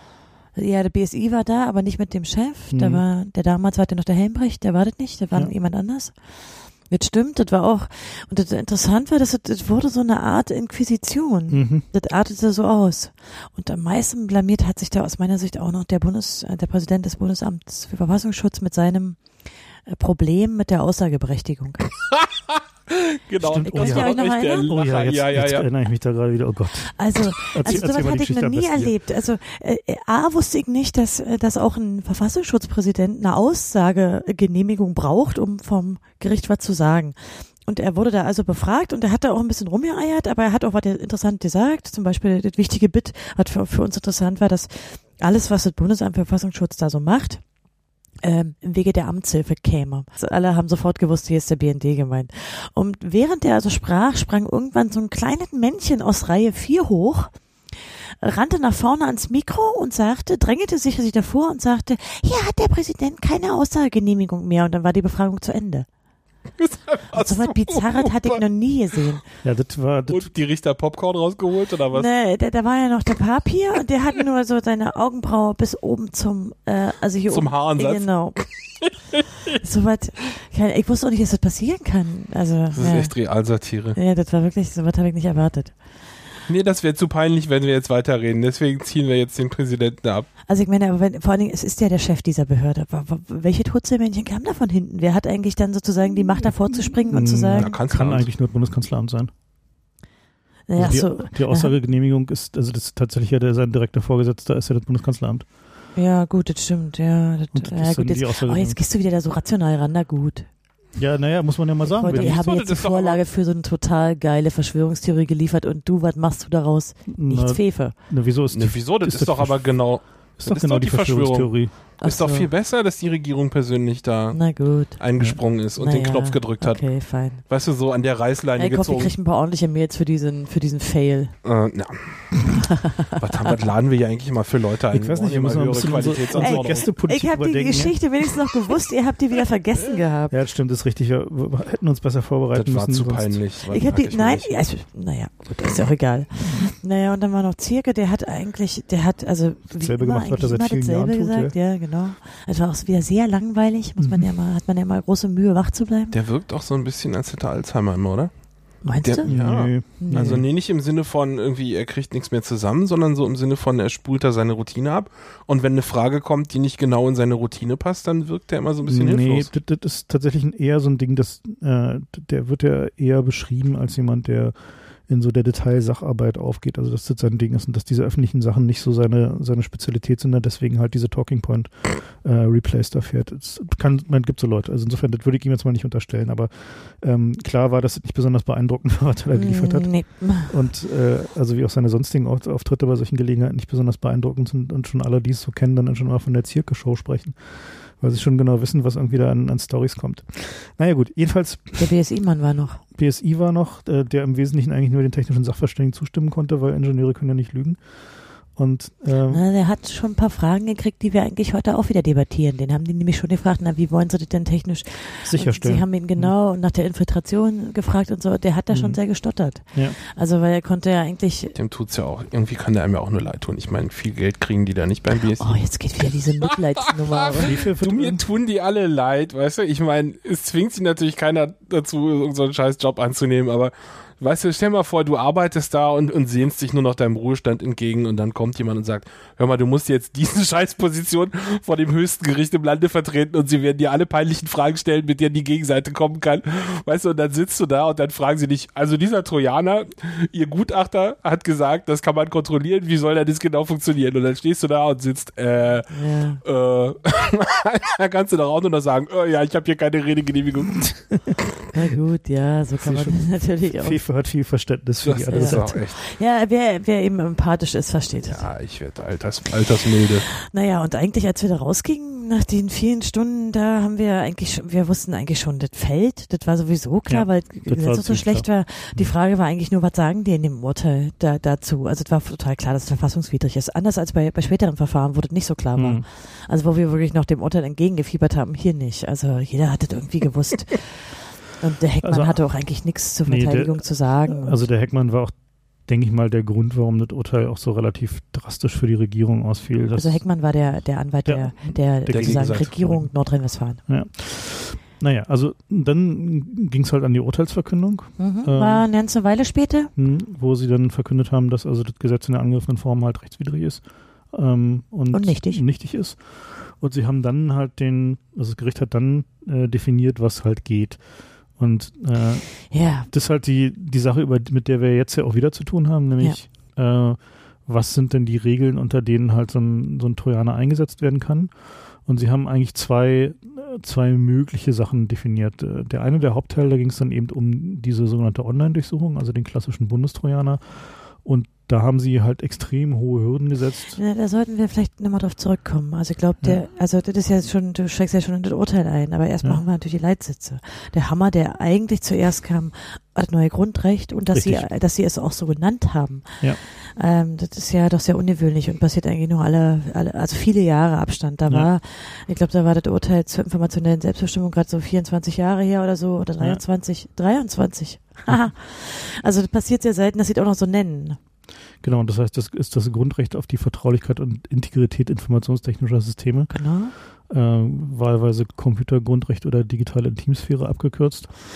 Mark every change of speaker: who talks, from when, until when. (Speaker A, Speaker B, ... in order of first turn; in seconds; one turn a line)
Speaker A: 0.5-21.9
Speaker B: 2.7-3.0
Speaker B: 11.5-11.8
Speaker C: 22.1-25.7
Speaker B: 23.4-28.9
Speaker A: 23.6-24.7
Speaker A: 26.9-47.5
Speaker A: 48.2-57.4
Speaker A: 58.2-65.9
Speaker C: 66.6-68.4
Speaker A: 67.1-69.2
Speaker B: 69.4-70.3
Speaker C: 70.1-72.1
Speaker A: 71.9-78.4
Speaker C: 77.3-78.9
Speaker A: 79.6-85.8
Speaker C: 82.8-84.0
Speaker C: 86.5-90.3
Speaker A: 90.5-97.7
Speaker B: 96.4-99.3
Speaker C: 97.5-98.3
Speaker A: 100.7-101.7
Speaker B: 100.8-105.5
Speaker A: 105.9-110.5
Speaker B: 107.5-108.8
Speaker B: 110.9-112.3
Speaker C: 111.9-113.2
Speaker A: 112.0-118.0
Speaker B: 117.1-121.7
Speaker C: 118.5-129.1
Speaker A: 122.0-122.5
Speaker A: 124.3-125.0
Speaker A: 125.8-127.5
Speaker A: 128.6-131.4
Speaker C: 131.4-136.9
Speaker B: 134.9-138.0
Speaker A: 136.3-140.3
Speaker B: 140.3-143.5
Speaker C: 142.5-144.6
Speaker A: 143.7-156.2
Speaker B: 146.4-146.7
Speaker B: 149.7-151.6
Speaker B: 154.0-154.3
Speaker C: 156.1-169.5
Speaker A: 158.8-160.4
Speaker B: 159.2-160.4
Speaker B: 168.8-202.0
Speaker A: 189.3-190.6
Speaker A: 201.8-202.8
Speaker B: 202.9-209.4
Speaker A: 209.3-221.5
Speaker B: 215.2-216.3
Speaker B: 218.7-220.0
Speaker C: 221.5-226.1
Speaker A: 225.4-227.6
Speaker C: 227.1-261.4
Speaker B: 227.4-228.2
Speaker A: 255.9-256.4
Speaker A: 261.7-264.0
Speaker B: 262.8-265.8
Speaker C: 265.0-266.1
Speaker A: 265.3-268.5
Speaker C: 268.2-270.3
Speaker A: 270.4-294.6
Speaker B: 277.1-279.1
Speaker B: 285.8-286.1
Speaker B: 292.0-303.1
Speaker A: 299.9-303.8
Speaker C: 302.1-302.9
Speaker B: 303.9-308.9
Speaker A: 308.2-309.9
Speaker B: 309.9-344.0
Speaker A: 315.1-315.6
Speaker A: 322.7-323.1
Speaker A: 343.9-371.2
Speaker B: 354.3-354.7
Speaker B: 368.3-368.5
Speaker B: 371.8-381.3
Speaker A: 376.5-376.9